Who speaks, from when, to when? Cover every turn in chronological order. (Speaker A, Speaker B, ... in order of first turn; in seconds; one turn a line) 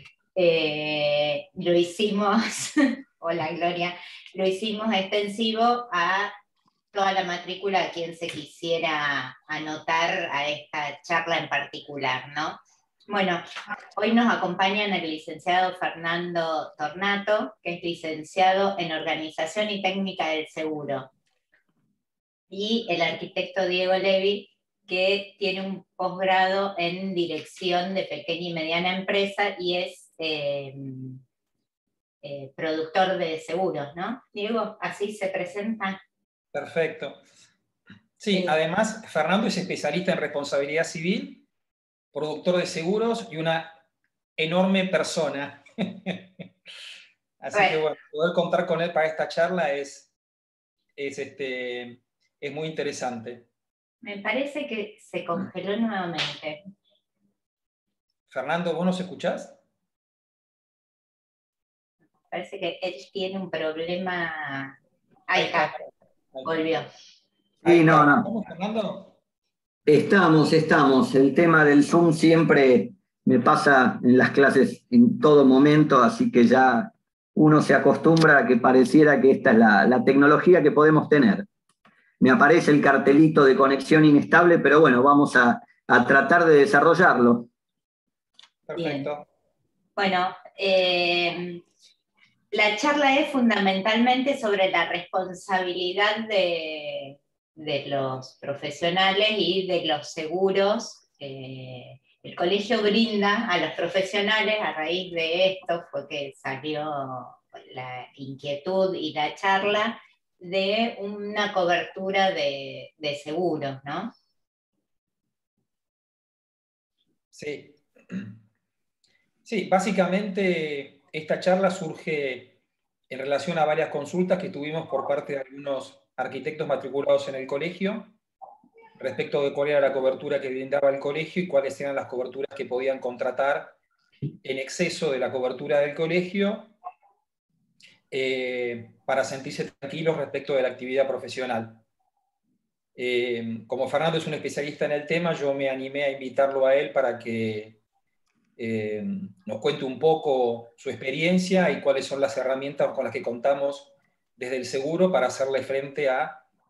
Speaker A: 0.3-6.3
Speaker A: 6.9-13.4
Speaker A: 13.9-21.1
Speaker A: 22.5-31.2
Speaker A: 32.2-36.0
Speaker B: 36.5-37.2
Speaker B: 38.2-41.4
Speaker B: 42.1-43.7
Speaker B: 44.4-46.4
Speaker B: 47.4-50.1
Speaker A: 47.5-47.8
Speaker B: 51.0-53.5
Speaker A: 54.0-56.6
Speaker B: 58.3-59.6
Speaker A: 62.3-64.8
Speaker A: 65.3-65.8
Speaker B: 65.3-66.5
Speaker A: 66.4-66.9
Speaker B: 67.6-69.1
Speaker C: 67.6-68.3
Speaker C: 69.9-81.5
Speaker C: 82.2-87.5
Speaker B: 88.7-89.2
Speaker A: 88.8-89.1
Speaker A: 90.0-91.6
Speaker A: 92.5-114.1
Speaker B: 117.3-118.3
Speaker B: 119.4-122.5
Speaker B: 123.1-128.1
Speaker B: 129.0-133.7
Speaker B: 134.4-136.7
Speaker B: 138.1-141.8
Speaker B: 142.9-147.8
Speaker B: 148.6-156.4